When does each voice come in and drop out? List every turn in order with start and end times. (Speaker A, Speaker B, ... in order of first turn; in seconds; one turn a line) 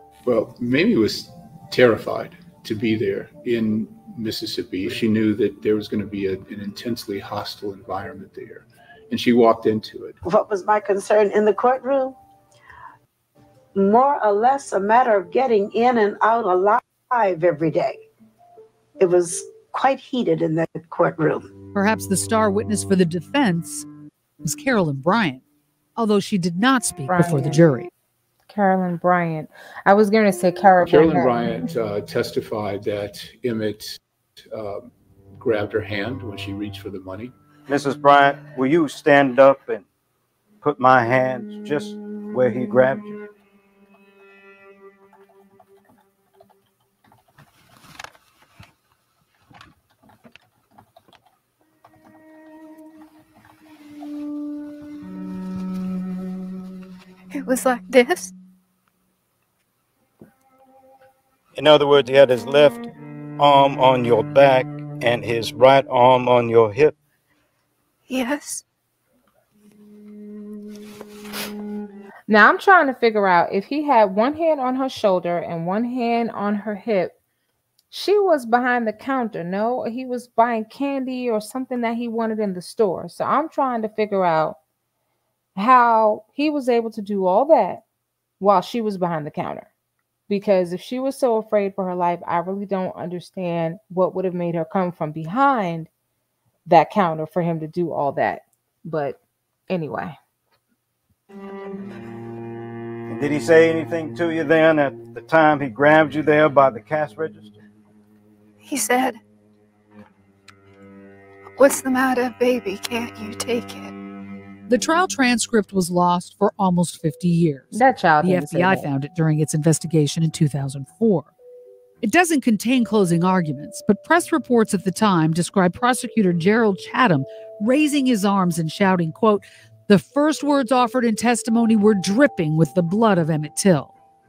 Speaker A: 0.2-10.2
Speaker B: 10.2-12.2
Speaker B: 13.7-18.1
Speaker B: 19.0-21.5
Speaker C: 21.7-23.9
Speaker C: 24.4-25.4
Speaker C: 25.9-27.9
Speaker D: 27.1-27.6
Speaker D: 28.5-31.6
Speaker A: 30.8-34.0
Speaker A: 34.5-37.3
Speaker E: 37.7-39.8
Speaker E: 40.6-43.1
Speaker F: 57.3-58.3
Speaker E: 61.5-67.0
Speaker F: 68.1-68.6
Speaker D: 72.3-77.1
Speaker D: 77.9-84.6
Speaker D: 85.5-87.8
Speaker D: 88.4-89.7
Speaker D: 90.3-95.9
Speaker D: 96.7-100.2
Speaker E: 103.1-107.6
Speaker F: 108.6-109.2
Speaker F: 111.5-113.9
Speaker C: 114.7-121.3
Speaker D: 117.7-118.9
Speaker C: 122.0-133.9